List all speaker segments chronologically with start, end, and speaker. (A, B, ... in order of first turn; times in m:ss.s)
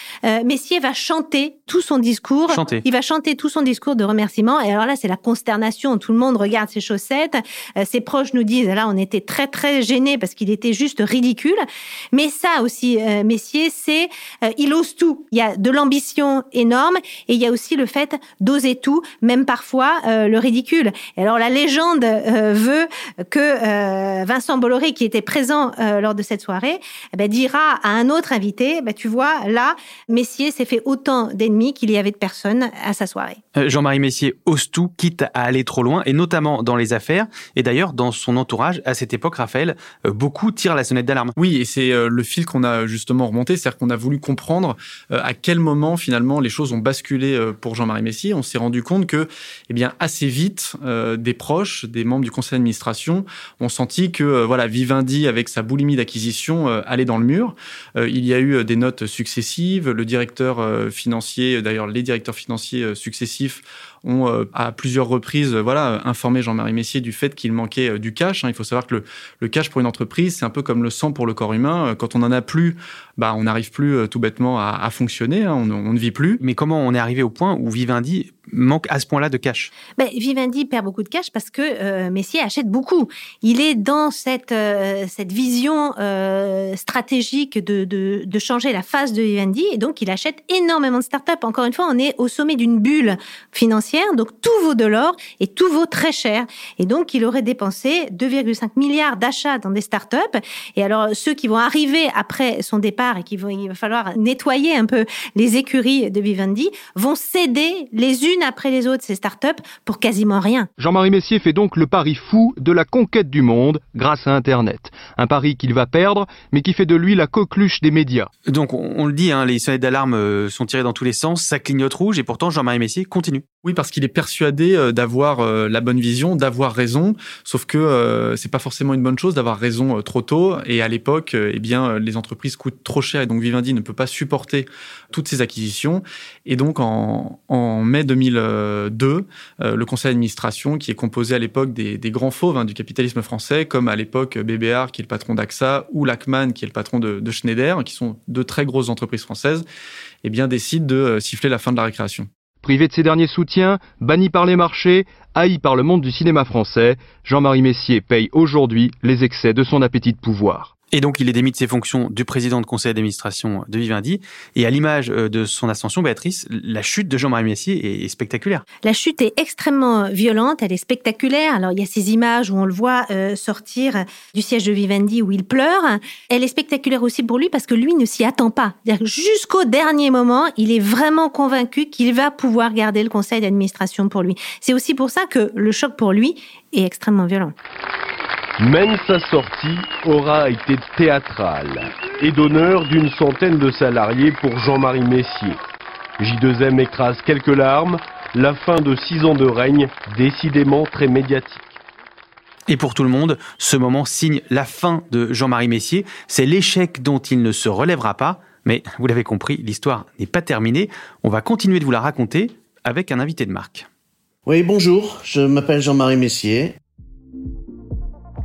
0:00.3-0:33.4 A
0:02.5-0:02.8 B
0:33.6-0:41.3 B
0:41.4-1:16.4 C
1:16.4-1:19.7 B
1:20.0-1:50.7 A
1:50.8-1:58.3 D
1:58.5-2:03.4 B
2:03.6-2:29.6 C
2:30.2-2:32.3 C
2:32.6-2:40.7 D
2:40.9-2:48.6 B
2:48.8-3:07.5 A
3:08.6-3:15.6 E
3:16.2-3:21.7 E
3:22.7-3:33.9 B
3:34.5-3:36.8 F